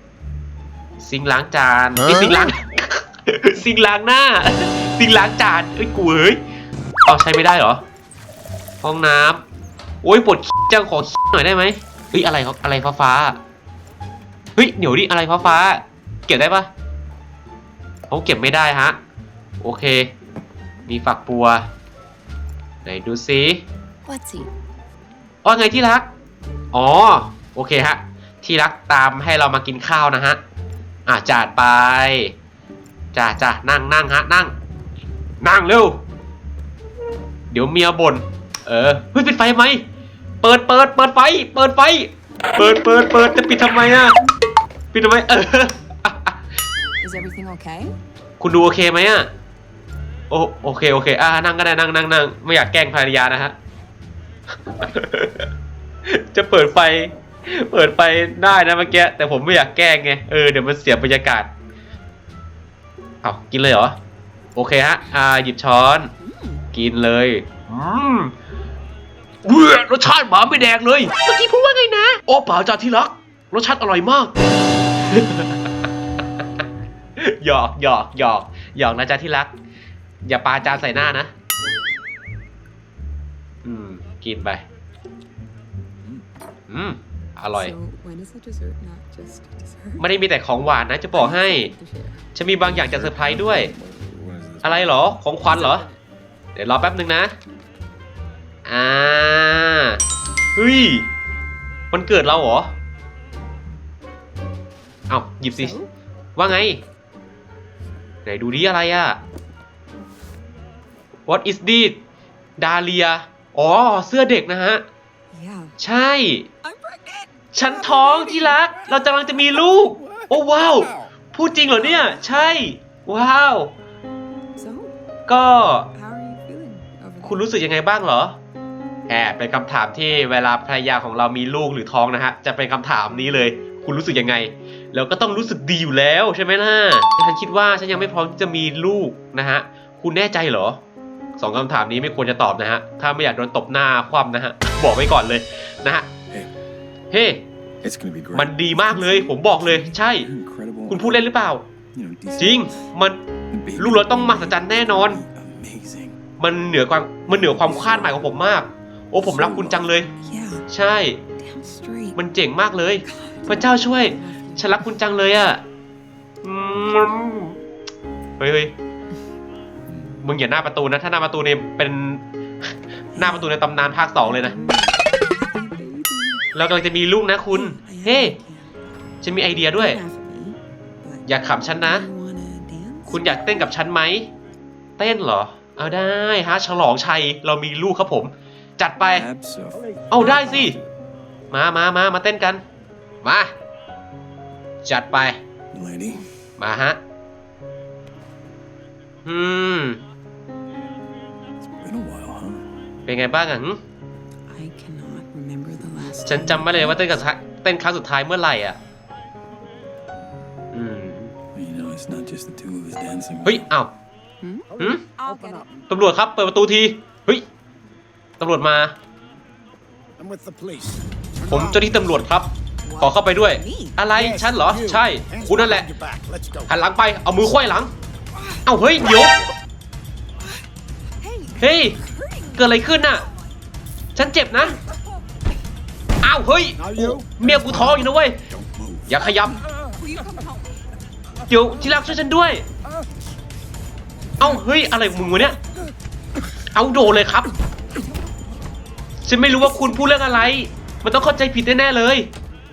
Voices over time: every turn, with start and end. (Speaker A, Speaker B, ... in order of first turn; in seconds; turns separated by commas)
Speaker A: 1.0-6.4, Speaker A: 7.0-7.8, Speaker A: 8.8-9.4, Speaker A: 10.0-13.4, Speaker A: 14.6-16.7, Speaker A: 18.1-19.0, Speaker A: 19.6-20.1, Speaker A: 20.9-21.7, Speaker A: 22.8-23.6, Speaker B: 24.0-24.5, Speaker A: 25.4-26.1, Speaker A: 26.7-30.4, Speaker A: 31.1-32.3, Speaker A: 33.1-34.5, Speaker A: 35.4-36.0, Speaker A: 37.5-39.8, Speaker A: 40.4-44.1, Speaker A: 44.9-46.4, Speaker B: 47.0-47.9, Speaker A: 48.4-49.3, Speaker A: 50.3-53.5, Speaker A: 54.7-55.5, Speaker A: 56.0-61.5, Speaker A: 63.2-64.0, Speaker A: 64.5-66.1, Speaker B: 66.2-66.6, Speaker A: 66.7-68.3, Speaker A: 69.4-74.3, Speaker A: 75.0-75.7, Speaker A: 77.2-79.5, Speaker A: 80.2-81.3, Speaker A: 83.6-84.6, Speaker A: 86.7-87.7, Speaker B: 87.5-90.0, Speaker A: 90.0-91.7, Speaker B: 91.1-92.2, Speaker A: 92.3-93.7, Speaker C: 92.6-95.0, Speaker A: 94.6-95.8, Speaker B: 95.5-96.0, Speaker A: 96.5-97.3, Speaker A: 98.7-100.0, Speaker A: 100.5-101.1, Speaker A: 101.9-102.7, Speaker A: 105.1-105.7, Speaker B: 105.5-105.9, Speaker A: 106.3-106.8, Speaker A: 108.2-109.2, Speaker A: 111.3-112.0, Speaker A: 112.6-114.8, Speaker B: 115.3-115.7, Speaker A: 115.8-116.5, Speaker B: 116.6-118.6, Speaker A: 117.5-123.7, Speaker C: 120.0-121.1, Speaker B: 124.5-124.9, Speaker A: 125.3-125.9, Speaker B: 125.9-127.4, Speaker A: 127.2-128.4, Speaker A: 129.1-140.8, Speaker A: 141.4-146.1, Speaker A: 147.1-147.4, Speaker C: 147.8-151.2, Speaker A: 148.3-150.3, Speaker A: 150.9-151.7, Speaker C: 151.9-152.7, Speaker A: 152.4-153.2, Speaker C: 153.5-156.2, Speaker A: 153.8-155.2, Speaker A: 156.4-160.1, Speaker C: 157.3-158.3, Speaker C: 159.2-159.9, Speaker B: 160.2-160.6, Speaker A: 160.7-161.2, Speaker B: 161.4-162.2, Speaker A: 162.1-165.6, Speaker B: 163.0-164.8, Speaker A: 166.4-167.6, Speaker A: 168.4-168.7, Speaker A: 170.2-172.2, Speaker A: 173.1-174.5, Speaker B: 173.2-173.5, Speaker B: 174.2-176.5, Speaker A: 176.5-178.4, Speaker B: 177.5-178.7, Speaker A: 179.2-180.0, Speaker B: 179.6-181.3, Speaker A: 181.3-182.1, Speaker B: 181.8-183.7, Speaker A: 183.1-184.3, Speaker A: 185.0-189.3, Speaker C: 189.0-190.7, Speaker A: 190.1-190.8, Speaker A: 191.5-192.6, Speaker A: 193.2-193.5, Speaker A: 194.8-195.4, Speaker C: 195.7-196.3, Speaker A: 196.6-197.0, Speaker A: 199.2-200.0, Speaker C: 201.6-202.7, Speaker A: 203.1-203.8, Speaker B: 204.5-207.1, Speaker A: 206.2-208.8, Speaker A: 210.7-211.3, Speaker C: 211.5-213.6, Speaker A: 213.4-213.9, Speaker B: 214.4-215.8, Speaker A: 214.8-215.0, Speaker A: 215.9-217.4, Speaker A: 218.4-218.9, Speaker D: 220.2-222.0, Speaker A: 221.5-225.9, Speaker B: 222.8-224.0, Speaker D: 224.1-226.6, Speaker A: 226.7-227.9, Speaker B: 228.3-228.7, Speaker A: 228.6-229.3, Speaker B: 230.4-230.7, Speaker B: 231.2-233.3, Speaker A: 231.6-232.0, Speaker A: 232.6-233.2, Speaker A: 234.1-234.8, Speaker A: 236.2-238.4, Speaker C: 237.3-238.0, Speaker A: 239.1-239.6, Speaker B: 239.3-240.8, Speaker A: 241.5-242.6, Speaker A: 244.4-245.6, Speaker A: 246.7-247.5, Speaker A: 249.2-252.3